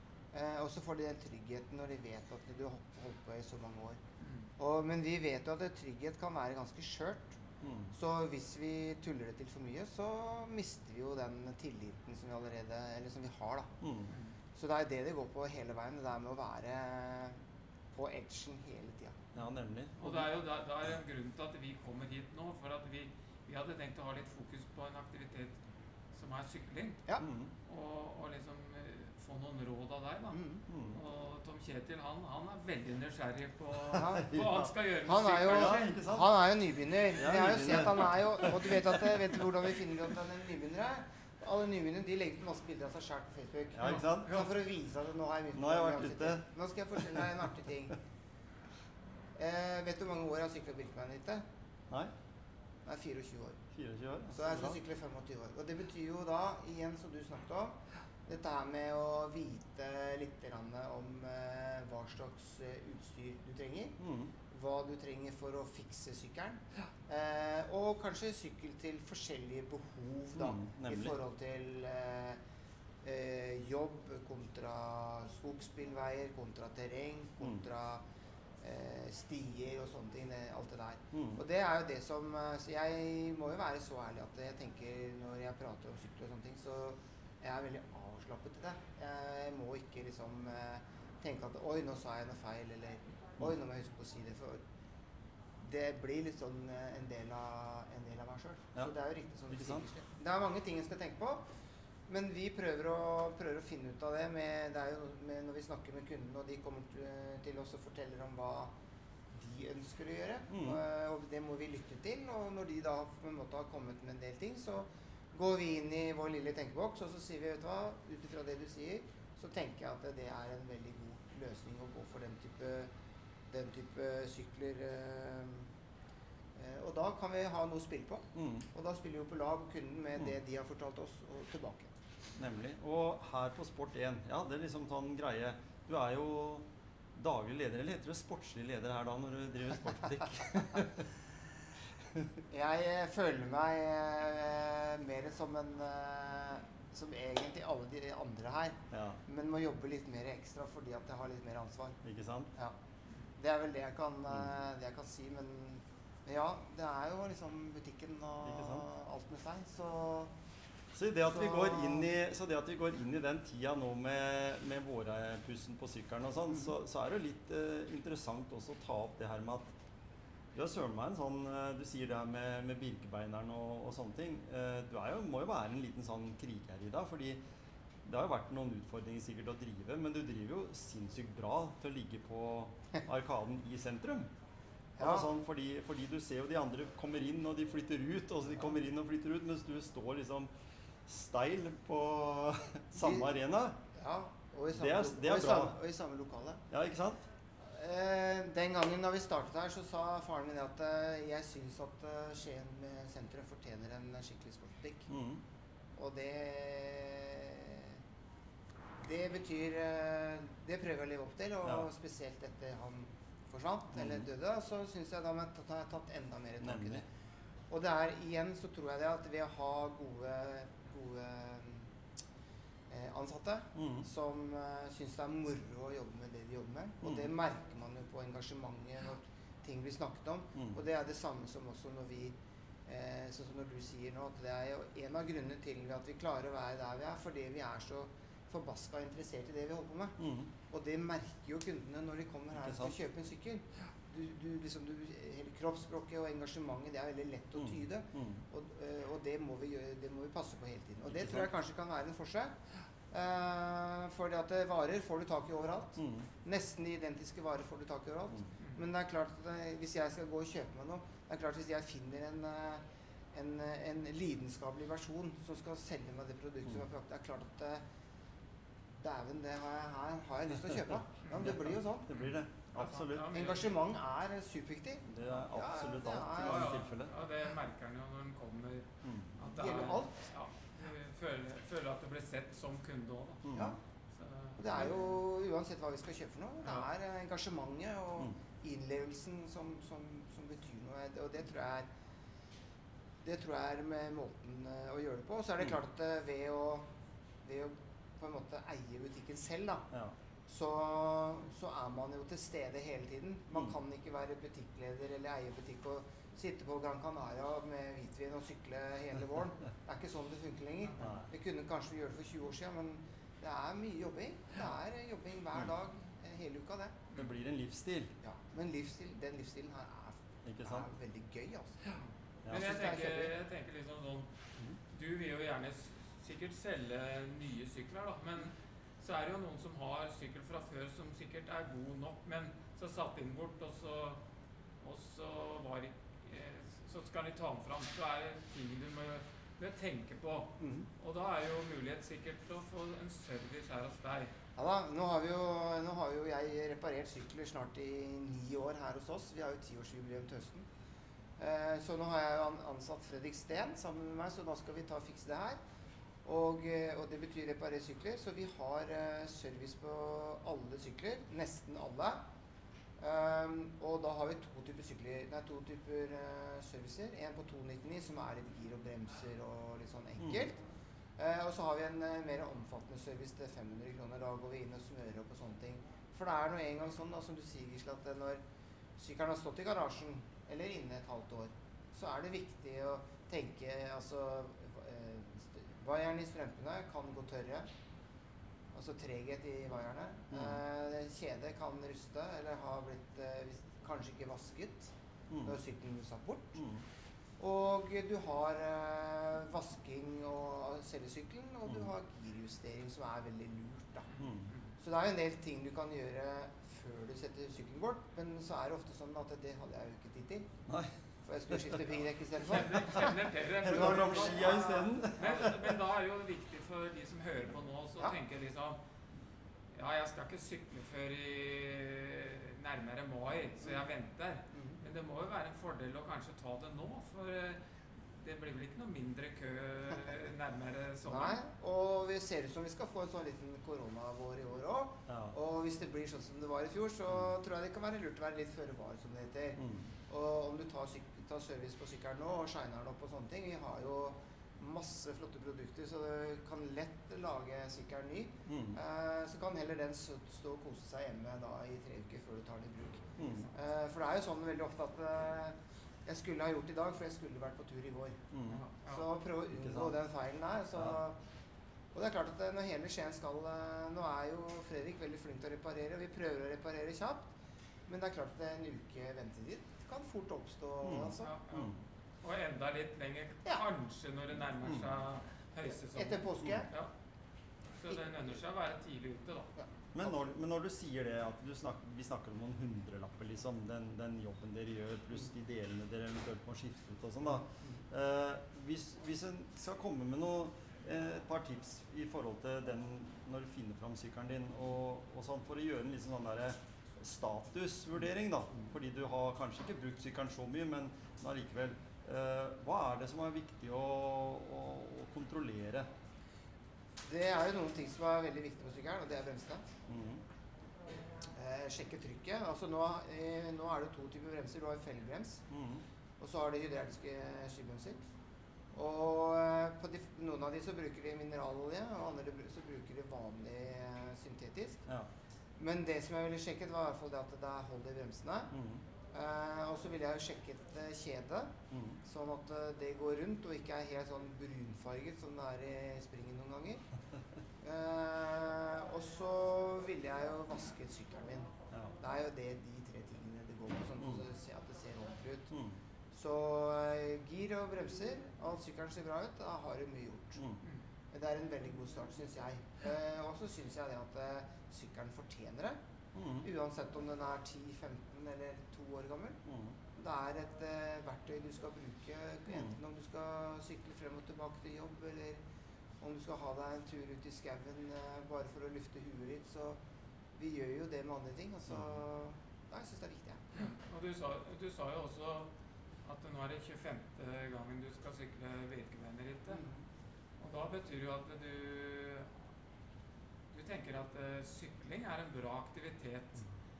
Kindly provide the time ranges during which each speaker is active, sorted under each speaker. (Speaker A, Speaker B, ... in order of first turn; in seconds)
Speaker A: 0.3-4.0, 4.6-7.4, 7.9-13.7, 14.6-17.4, 17.9-19.2, 30.3-30.6, 33.9-34.3, 35.1-48.0, 49.4-51.5, 52.9-53.6, 54.3-64.0, 64.5-72.4, 73.0-78.0, 78.6-94.6, 95.6-101.5, 102.1-108.7, 109.3-122.9, 123.5-125.7, 126.6-131.9, 142.5-152.0, 153.4-160.3, 161.3-162.1, 185.0-185.3, 193.0-193.3, 193.9-196.6, 197.6-205.1, 206.0-208.0, 209.0-217.1, 217.7-221.9, 222.9-240.2, 240.7-252.6, 253.1-262.8, 263.3-267.8, 269.0-272.1, 273.3-276.8, 279.5-280.2, 284.6-291.9, 293.2-296.9, 297.4-299.9, 300.5-317.0, 318.2-321.8, 322.5-323.3, 340.6-340.9, 344.6-350.7, 351.4-355.6, 356.2-362.2, 363.0-370.6, 371.2-378.4, 379.0-387.7, 388.7-394.9, 395.4-396.6, 397.4-404.1, 404.8-410.5, 411.2-413.1, 413.6-415.1, 424.5-424.8, 431.1-458.2, 458.9-461.2, 461.9-467.3, 467.9-471.3, 475.6-476.7, 479.6-480.3, 487.3-487.8, 507.1-509.7, 511.4-515.4, 516.2-518.0, 518.7-524.8, 525.6-528.5, 529.1-536.8, 537.6-541.5, 542.0-545.5, 546.1-550.4, 551.1-555.8, 556.4-559.4, 560.0-565.4, 566.0-569.8, 570.4-573.6, 579.5-579.8
Speaker B: 4.2-4.5, 14.1-14.4, 20.0-25.6, 26.1-27.1, 27.7-35.9, 43.9-44.5, 271.2-271.5, 272.1-273.8, 276.3-278.9, 279.4-283.5, 284.1-285.1, 321.9-324.3, 324.9-334.2, 334.8-344.3, 404.1-404.7, 412.4-418.8, 419.7-431.4, 453.2-453.5, 458.5-459.1, 471.2-476.9, 477.8-479.5, 573.5-575.5, 576.0-579.6, 580.4-582.3, 583.5-586.5
Speaker C: 7.6-7.9, 13.8-14.1, 19.3-20.3, 27.2-27.5, 30.7-31.0, 33.9-34.7, 35.4-36.3, 37.2-39.3, 43.7-44.5, 45.5-46.4, 47.0-47.3, 53.7-54.8, 64.0-64.3, 70.4-71.2, 81.1-81.4, 99.5-99.8, 110.5-110.8, 128.3-128.7, 132.4-141.1, 142.1-142.4, 148.9-149.2, 152.0-152.5, 158.4-158.8, 160.9-169.7, 170.5-177.4, 178.0-184.3, 185.0-190.5, 191.1-193.8, 194.7-195.8, 196.7-197.3, 205.1-205.4, 213.9-214.2, 216.6-217.0, 223.8-224.1, 227.0-227.3, 230.6-230.8, 240.2-240.5, 242.6-243.0, 247.6-248.4, 251.1-251.5, 256.0-256.3, 271.4-273.4, 275.1-277.1, 279.0-279.4, 283.4-283.8, 311.0-311.3, 317.1-318.1, 320.4-320.9, 322.4-322.7, 390.3-390.6, 395.3-395.6, 396.6-396.8, 404.2-404.5, 410.7-410.9, 412.9-415.7, 435.1-435.3, 439.6-439.9, 448.5-448.8, 453.2-453.5, 458.3-458.6, 459.5-460.0, 470.8-471.8, 479.9-505.9, 509.9-510.2, 515.5-515.9, 528.5-528.8, 531.7-532.0, 545.5-545.8, 556.1-556.5, 559.5-559.8, 562.5-562.8, 571.7-572.0